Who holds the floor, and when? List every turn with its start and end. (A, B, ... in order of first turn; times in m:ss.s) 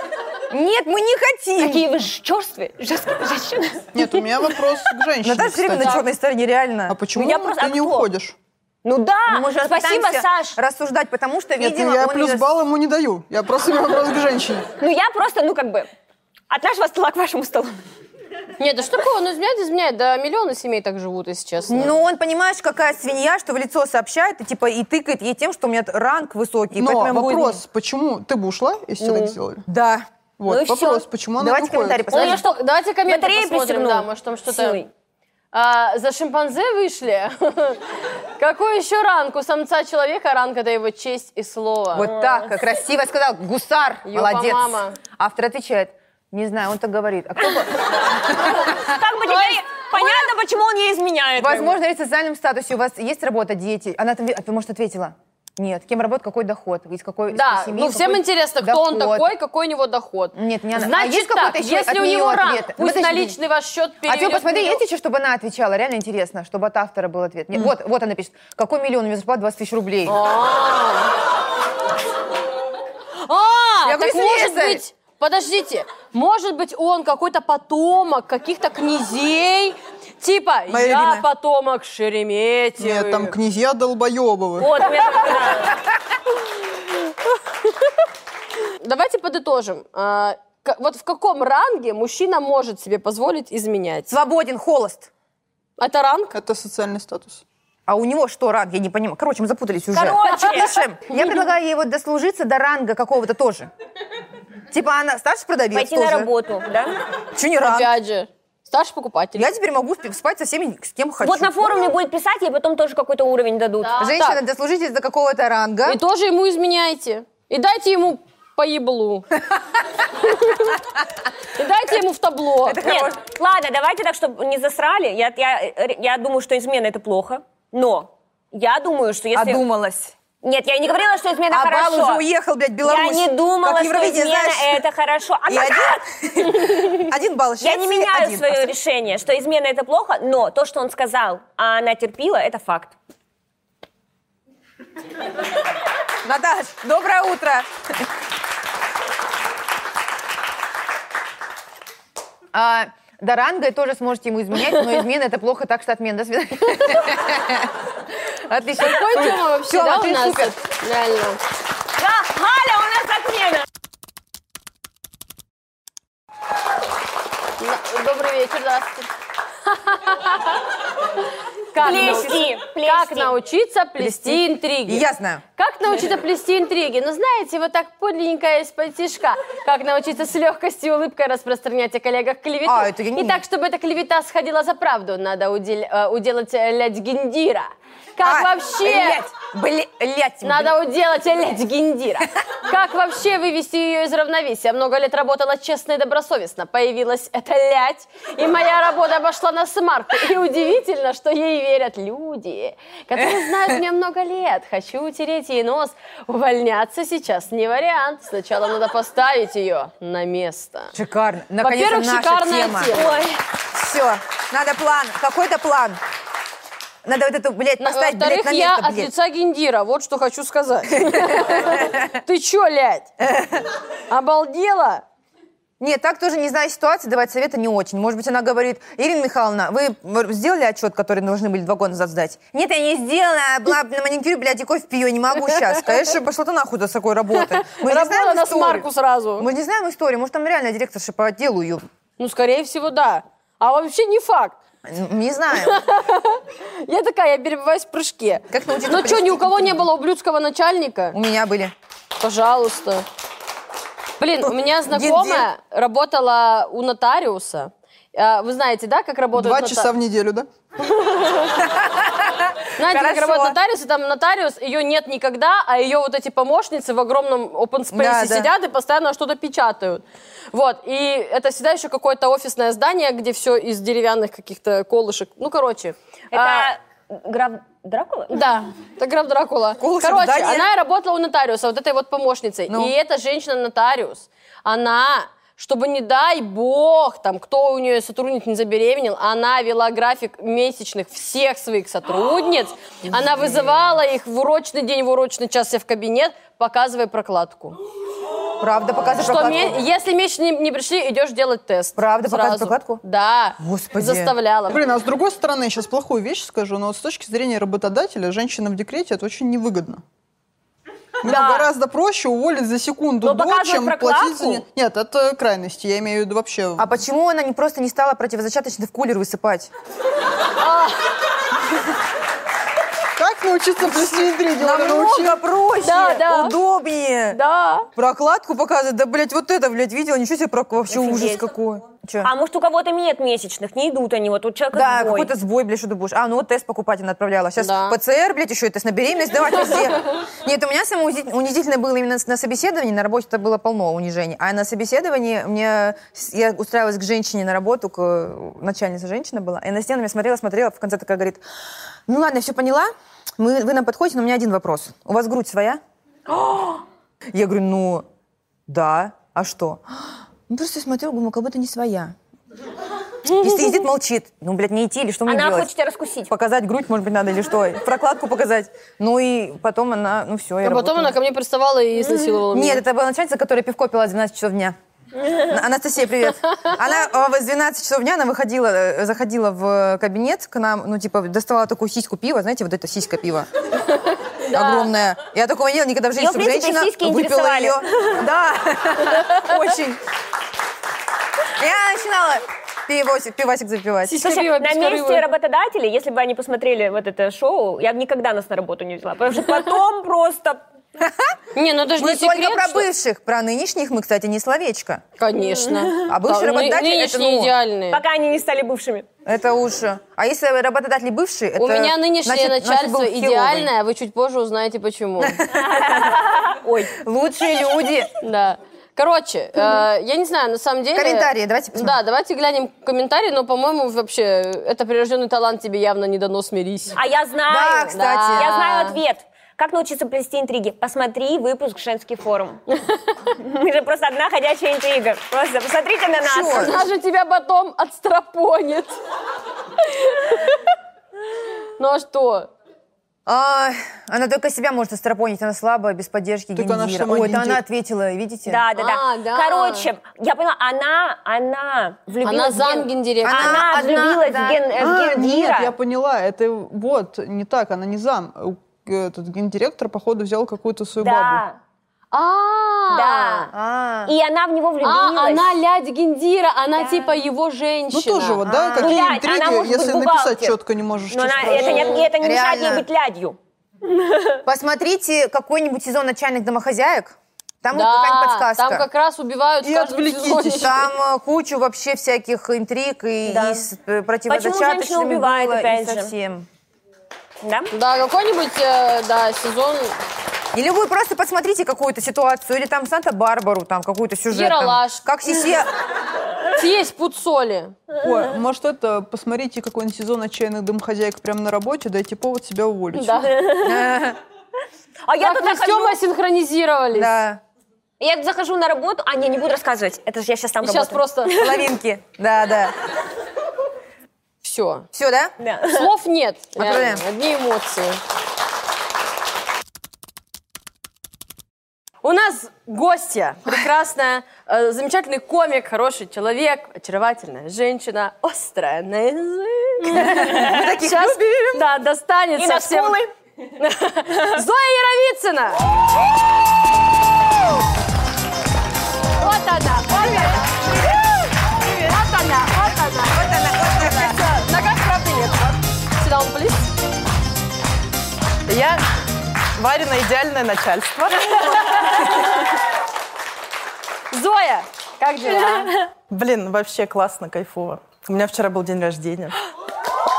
0:00.5-0:01.9 A
0:01.6-0:04.1 B
0:03.9-0:06.0 C
0:05.2-0:07.0 A
0:06.9-0:08.4 C
0:07.1-0:08.1 B
0:08.8-0:10.6 B
0:09.3-0:12.5 A
0:11.6-0:14.7 C
0:14.8-0:15.9 B
0:16.5-0:17.8 B
0:18.6-0:22.0 D
0:21.7-0:27.6 A
0:26.8-0:29.6 C
0:29.0-0:29.4 B
0:29.7-0:30.1 A
0:30.4-0:32.1 C
0:30.5-0:31.1 B
0:31.4-0:32.4 A
0:32.1-0:34.8 D
0:32.1-0:32.5 B
0:33.0-0:34.9 B
0:35.5-0:37.8 D
0:38.4-0:42.1 D
0:41.9-0:48.8 A
0:42.0-0:42.6 B
0:44.1-0:45.0 D
0:47.5-0:51.8 B
0:51.4-0:59.3 A
0:57.3-1:04.8 D
1:00.4-1:03.4 A
1:04.1-1:10.2 A
1:10.1-1:11.1 D
1:13.2-1:23.4 D
1:13.8-1:14.8 A
1:20.7-1:21.2 A
1:22.8-1:24.7 C
1:24.6-1:25.8 B
1:28.8-1:34.1 D
1:34.1-1:35.1 A
1:35.8-1:36.3 D
1:36.3-1:37.4 C
1:37.9-1:43.7 A
1:39.9-1:40.9 B
1:44.7-1:46.3 A
1:45.7-1:47.0 B
1:47.4-1:47.9 A
1:47.6-1:49.5 D
1:49.4-1:51.9 A
1:51.2-1:54.0 B
1:53.8-1:54.4 D
1:54.0-1:56.0 A
1:55.9-1:59.4 D
2:00.2-2:00.8 D
2:01.5-2:02.8 D
2:02.6-2:03.2 A
2:02.8-2:09.6 B
2:09.3-2:10.2 A
2:10.4-2:12.2 B
2:11.5-2:14.8 A
2:12.8-2:17.0 B
2:15.5-2:18.8 A
2:17.6-2:23.0 B
2:26.2-2:27.7 A
2:32.5-2:37.7 A
2:38.4-2:40.5 A
2:38.8-2:41.4 D
2:42.0-2:43.7 B
2:47.6-2:49.1 D
2:49.7-2:50.6 D
2:51.7-2:55.0 D
2:51.8-2:53.3 B
2:54.0-2:55.4 A
2:55.6-3:09.2 D
3:02.6-3:03.4 A
3:08.2-3:10.7 A
3:10.4-3:30.9 D
3:23.2-3:23.8 A
3:30.9-3:33.0 A
3:31.6-3:33.2 D
3:32.9-3:33.4 B
3:33.7-3:36.0 A
3:37.0-3:39.1 A
3:37.8-3:43.1 D
3:40.9-3:42.2 A
3:43.2-3:43.7 A
3:44.1-3:45.0 D
3:45.8-4:01.8 A
3:57.4-3:59.5 D
4:02.2-4:04.6 D
4:04.8-4:05.8 A
4:05.6-4:11.2 D
4:08.5-4:09.9 A
4:11.1-4:11.7 A
4:12.2-4:13.0 D
4:14.2-4:19.9 D
4:14.4-4:15.5 A
4:19.3-4:20.5 C
4:20.9-4:21.6 D
4:21.6-4:23.6 A
4:22.8-4:36.7 D
4:27.9-4:28.5 A
4:36.3-4:38.4 B
4:38.3-4:57.8 D
4:39.8-4:40.7 A
4:42.7-4:42.9 A
4:53.1-4:53.7 A
4:58.6-4:59.8 A
4:59.2-5:04.8 D
5:02.0-5:03.0 A
5:03.6-5:04.3 A
5:04.7-5:10.0 C
5:11.2-5:16.9 C
5:11.3-5:11.7 D
5:13.2-5:14.6 B
5:16.8-5:19.7 A
5:20.6-5:21.0 D
5:23.2-5:25.4 C
5:23.9-5:27.4 A
5:25.8-5:26.6 D
5:27.3-5:27.9 D
5:28.0-5:32.3 A
5:30.9-5:31.5 B
5:32.2-5:35.3 B
5:34.7-5:51.4 A
5:37.6-5:38.0 D
5:52.1-5:55.8 A
5:57.3-5:58.0 A
5:58.7-6:02.2 A
6:03.2-6:05.7 A
6:03.3-6:03.6 D
6:05.3-6:06.3 B
6:06.3-6:11.2 A
6:10.6-6:12.8 D
6:12.5-6:14.8 A
6:15.4-6:23.5 A
6:24.4-6:24.9 D
6:24.5-6:30.0 A
6:26.2-6:28.2 B
6:31.6-6:34.4 A
6:34.0-6:35.2 D
6:34.2-6:40.6 B
6:41.0-6:41.4 A
6:41.6-6:42.9 D
6:42.0-6:45.0 A
6:45.2-6:48.0 D
6:45.4-6:46.1 B
6:46.1-6:47.5 A
6:47.9-6:49.1 B
6:49.2-6:53.7 A
6:51.6-6:55.5 D
6:55.2-6:56.3 A
6:55.8-6:56.9 B
6:56.9-6:58.1 A
6:58.2-7:07.0 D
7:00.9-7:02.0 A
7:07.0-7:12.6 B
7:07.5-7:09.0 A
7:07.9-7:08.5 D
7:13.3-7:16.8 B
7:16.2-7:16.8 A
7:16.5-7:19.0 D
7:19.8-7:20.6 D
7:21.8-7:22.5 D
7:23.3-7:28.6 A
7:26.6-7:27.6 C
7:28.5-7:35.7 B
7:28.8-7:29.9 D
7:32.2-7:33.7 D
7:33.2-7:34.7 A
7:34.8-7:41.4 C
7:41.0-7:41.6 B
7:42.1-7:43.5 D
7:42.9-7:43.5 B
7:43.5-7:44.1 A
7:44.1-7:45.6 B
7:44.8-7:48.4 D
7:46.8-7:47.2 B
7:47.9-7:52.1 C
7:48.4-7:49.0 A
7:48.8-7:50.6 B
7:51.1-7:54.4 B
7:52.1-7:52.9 A
7:54.5-7:58.9 A
7:57.7-8:00.8 D
7:59.6-8:00.8 C
8:00.5-8:06.5 A
8:03.3-8:03.6 B
8:04.3-8:06.1 B
8:07.4-8:07.7 B
8:07.7-8:10.0 D
8:10.5-8:15.7 A
8:14.3-8:15.0 D
8:16.5-8:17.8 D
8:18.0-8:23.4 C
8:23.0-8:23.3 D
8:23.3-8:23.9 B
8:23.6-8:24.2 A
8:25.1-8:26.0 B
8:25.2-8:27.2 D
8:26.9-8:27.4 A
8:28.0-8:31.7 B
8:30.6-8:31.4 D
8:31.3-8:32.7 A
8:34.4-8:34.9 D
8:34.9-8:35.3 A
8:35.4-8:35.9 B
8:35.7-8:38.0 D
8:36.6-8:37.0 A
8:42.0-8:53.0 D
8:49.9-8:51.6 A
8:50.3-8:50.6 B
8:52.4-8:53.1 B
8:53.6-8:55.6 D
8:59.2-9:00.7 D
9:00.0-9:00.8 A
9:01.7-9:06.7 D
9:03.0-9:04.2 A
9:08.5-9:08.8 E
9:09.5-9:11.6 E
9:14.1-9:15.7 D
9:16.1-9:19.4 E